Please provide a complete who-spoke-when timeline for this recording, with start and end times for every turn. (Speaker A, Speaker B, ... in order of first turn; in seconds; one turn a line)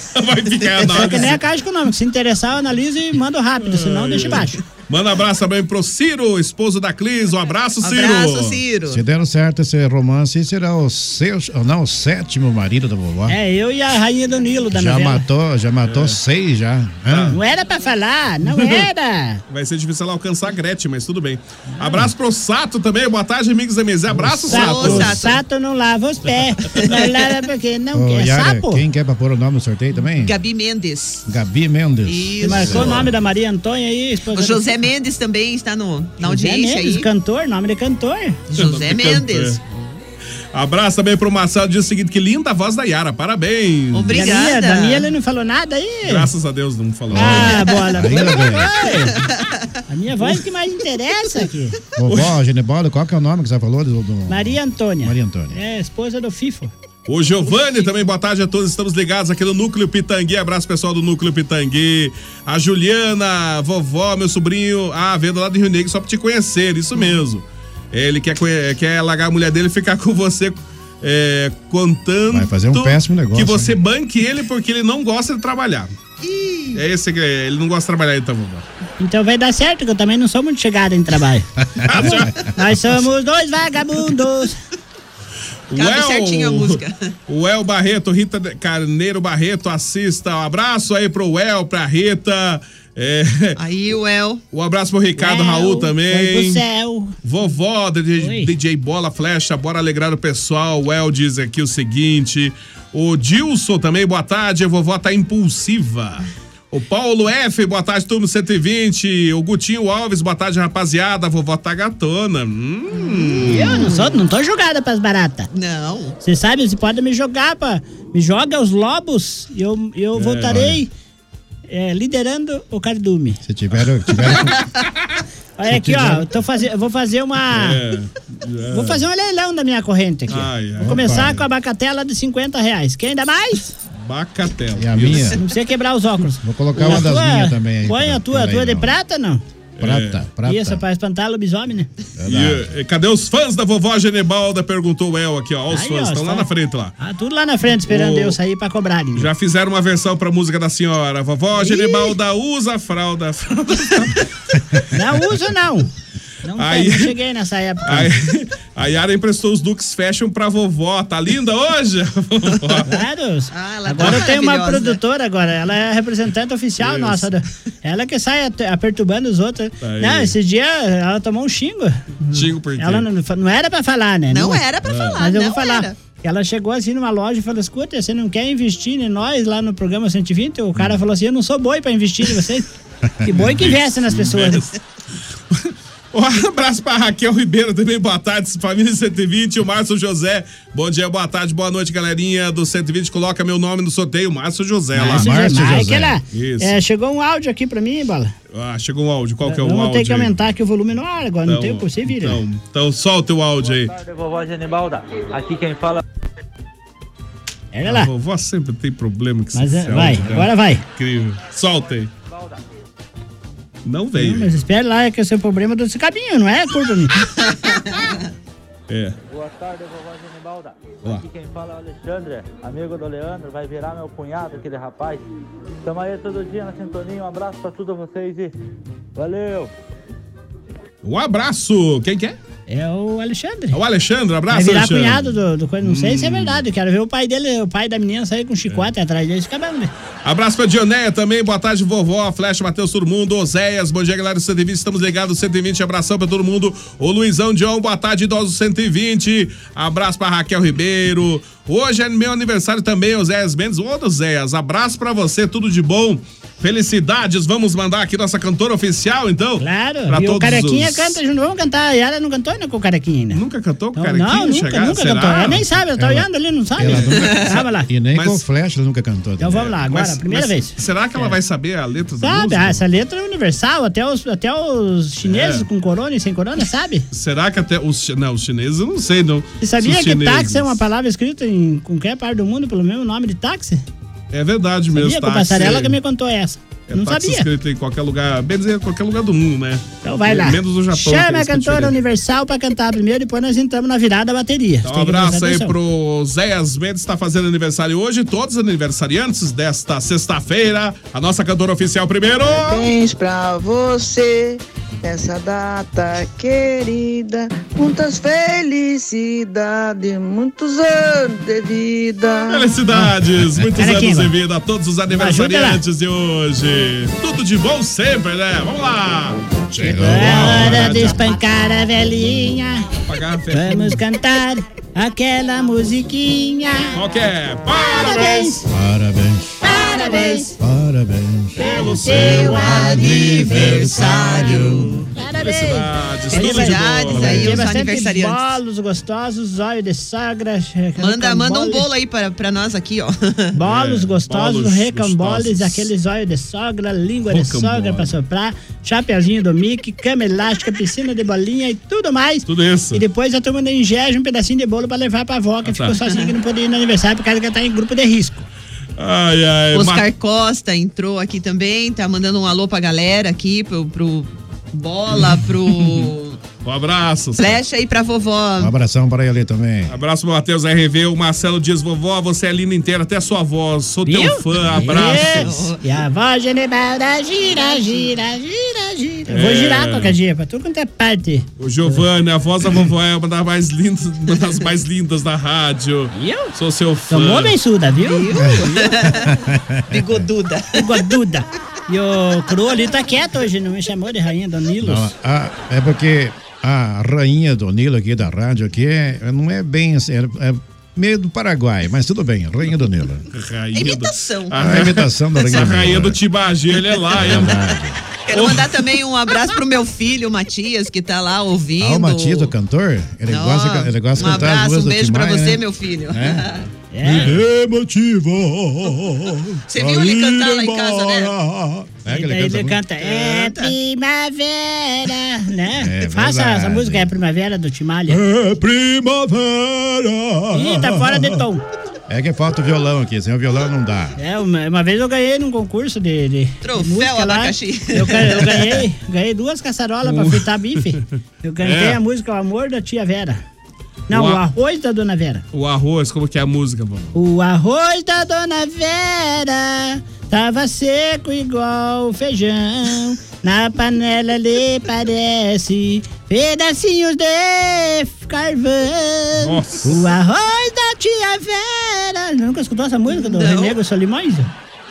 Speaker A: 0.1-1.4
Speaker B: 0.9-4.6
Speaker A: 3.6-8.6
Speaker C: 7.8-9.0
Speaker D: 8.9-13.3
Speaker B: 13.3-15.2
Speaker D: 14.7-17.4
Speaker A: 15.8-16.2
Speaker A: 17.1-17.4
Speaker B: 17.3-19.4
Speaker A: 19.5-25.2
Speaker B: 21.8-22.0
Speaker D: 24.1-24.4
Speaker B: 24.5-28.8
Speaker C: 24.5-25.4
Speaker D: 27.9-30.3
Speaker C: 30.2-31.2
Speaker D: 31.3-33.1
Speaker C: 32.1-33.0
Speaker B: 32.4-34.7
Speaker C: 34.3-37.1
Speaker B: 36.2-38.4
Speaker C: 38.5-39.6
Speaker A: 38.5-39.6
Speaker A: 40.5-44.3
Speaker C: 43.9-45.1
Speaker B: 44.1-46.3
Speaker A: 46.0-47.9
Speaker D: 47.1-48.7
Speaker B: 47.1-49.2
Speaker C: 49.2-49.5
Speaker B: 49.9-51.8
Speaker D: 52.0-55.6
Speaker A: 52.0-52.3
Speaker B: 54.3-56.7
Speaker A: 57.1-75.9
Speaker D: 72.3-73.7
Speaker C: 76.2-76.8
Speaker A: 76.7-78.6
Speaker B: 79.0-84.5
Speaker D: 81.7-82.5
Speaker A: 81.9-82.3
Speaker A: 85.7-93.6
Speaker C: 85.7-87.1
Speaker C: 93.6-94.4
Speaker A: 94.5-96.6
Speaker B: 95.2-97.1
Speaker A: 97.2-113.9
Speaker B: 98.2-98.5
Speaker B: 113.4-115.5
Speaker C: 115.5-116.2
Speaker B: 116.2-120.9
Speaker A: 120.1-120.8
Speaker B: 121.7-123.4
Speaker D: 123.4-124.6
Speaker B: 125.6-127.8
Speaker D: 125.7-126.3
Speaker A: 127.5-129.0
Speaker B: 128.7-133.7
Speaker A: 130.3-131.1
Speaker D: 130.8-131.4
Speaker A: 134.0-135.4
Speaker D: 134.7-135.4
Speaker B: 135.4-139.4
Speaker D: 136.4-138.9
Speaker A: 139.8-140.2
Speaker D: 139.8-140.8
Speaker B: 140.4-141.9
Speaker D: 142.2-142.6
Speaker A: 142.2-146.9
Speaker B: 145.7-146.5
Speaker B: 147.0-149.3
Speaker A: 147.9-148.4
Speaker A: 149.2-154.2
Speaker B: 151.6-152.1
Speaker B: 154.9-155.9
Speaker B: 156.4-158.1
Speaker A: 156.6-157.1
Speaker A: 157.8-162.9
Speaker B: 162.8-174.6
Speaker C: 163.5-165.0
Speaker A: 166.8-167.3
Speaker A: 169.8-170.3
Speaker A: 172.3-173.1
Speaker C: 174.3-175.9
Speaker A: 174.8-175.2
Speaker B: 175.2-182.7
Speaker D: 183.2-183.5
Speaker B: 183.2-184.7
Speaker A: 183.4-184.7
Speaker A: 185.5-195.3
Speaker B: 195.0-198.3
Speaker D: 195.0-196.2
Speaker A: 196.3-196.8
Speaker A: 198.5-200.3
Speaker B: 199.4-202.4
Speaker A: 201.4-203.9
Speaker E: 203.6-206.0
Speaker B: 207.7-208.1
Speaker A: 207.8-212.1
Speaker B: 209.5-210.8
Speaker E: 212.2-212.6
Speaker A: 213.8-214.5
Speaker B: 214.1-217.2
Speaker C: 217.4-218.2
Speaker A: 218.9-219.2
Speaker E: 219.3-225.2
Speaker E: 225.8-228.5
Speaker E: 229.1-229.7
Speaker A: 231.0-232.4
Speaker B: 232.7-233.8
Speaker A: 233.7-236.6
Speaker B: 234.5-239.9
Speaker A: 240.2-261.2
Speaker B: 259.6-263.4
Speaker A: 263.3-265.6
Speaker B: 263.9-267.9
Speaker D: 265.9-269.8
Speaker A: 268.1-268.4
Speaker B: 269.4-271.4
Speaker A: 269.7-272.8
Speaker B: 272.2-277.1
Speaker A: 275.2-275.7
Speaker A: 277.1-280.8
Speaker B: 279.6-283.8
Speaker A: 284.3-285.9
Speaker B: 284.9-287.5
Speaker A: 286.9-291.9
Speaker B: 290.0-295.7
Speaker A: 294.8-302.9
Speaker F: 302.4-312.8
Speaker A: 312.4-321.3
Speaker D: 313.0-313.6
Speaker B: 313.8-314.3
Speaker B: 315.1-315.8
Speaker D: 319.7-321.1
Speaker B: 319.8-322.9
Speaker A: 323.1-324.0
Speaker B: 323.5-327.0
Speaker A: 326.9-328.6
Speaker B: 327.8-328.6
Speaker D: 328.7-329.8
Speaker B: 329.6-330.6
Speaker D: 330.6-335.0
Speaker B: 331.6-333.4
Speaker A: 331.6-332.8
Speaker C: 332.2-334.9
Speaker A: 333.5-333.8
Speaker B: 335.1-341.9
Speaker A: 335.2-337.7
Speaker C: 336.3-338.4
Speaker C: 341.0-343.6
Speaker B: 343.5-358.4
Speaker A: 343.6-345.9
Speaker A: 347.3-348.1
Speaker A: 352.4-353.0
Speaker A: 355.6-355.9
Speaker A: 359.0-360.1
Speaker C: 359.7-366.4
Speaker A: 365.8-366.1
Speaker A: 366.6-367.6
Speaker C: 367.4-368.7
Speaker D: 368.6-370.0
Speaker A: 369.9-375.5
Speaker B: 374.1-382.0
Speaker C: 374.9-375.8
Speaker A: 379.3-380.2
Speaker A: 381.6-387.5
Speaker B: 386.1-386.5
Speaker B: 387.1-388.5
Speaker C: 388.0-389.3
Speaker D: 388.3-390.2
Speaker C: 389.9-391.0
Speaker B: 390.7-395.1
Speaker D: 394.8-403.2
Speaker A: 403.3-407.6
Speaker C: 403.7-404.6
Speaker D: 404.6-406.2
Speaker D: 407.1-408.0
Speaker C: 407.2-407.5
Speaker C: 408.3-412.5
Speaker A: 408.3-408.8
Speaker D: 411.8-416.5
Speaker C: 413.3-416.6
Speaker B: 416.9-417.4
Speaker D: 417.0-422.8
Speaker C: 419.7-421.3
Speaker B: 422.1-428.2
Speaker C: 423.1-423.7
Speaker D: 425.8-427.1
Speaker D: 428.1-431.4
Speaker B: 430.5-431.6
Speaker D: 432.1-434.2
Speaker B: 434.2-443.4
Speaker C: 436.6-438.6
Speaker A: 440.1-440.4
Speaker A: 441.6-442.0
Speaker B: 444.1-445.4
Speaker A: 444.1-444.4
Speaker A: 445.5-447.1
Speaker B: 447.1-464.5
Speaker A: 459.4-459.9
Speaker C: 463.2-463.8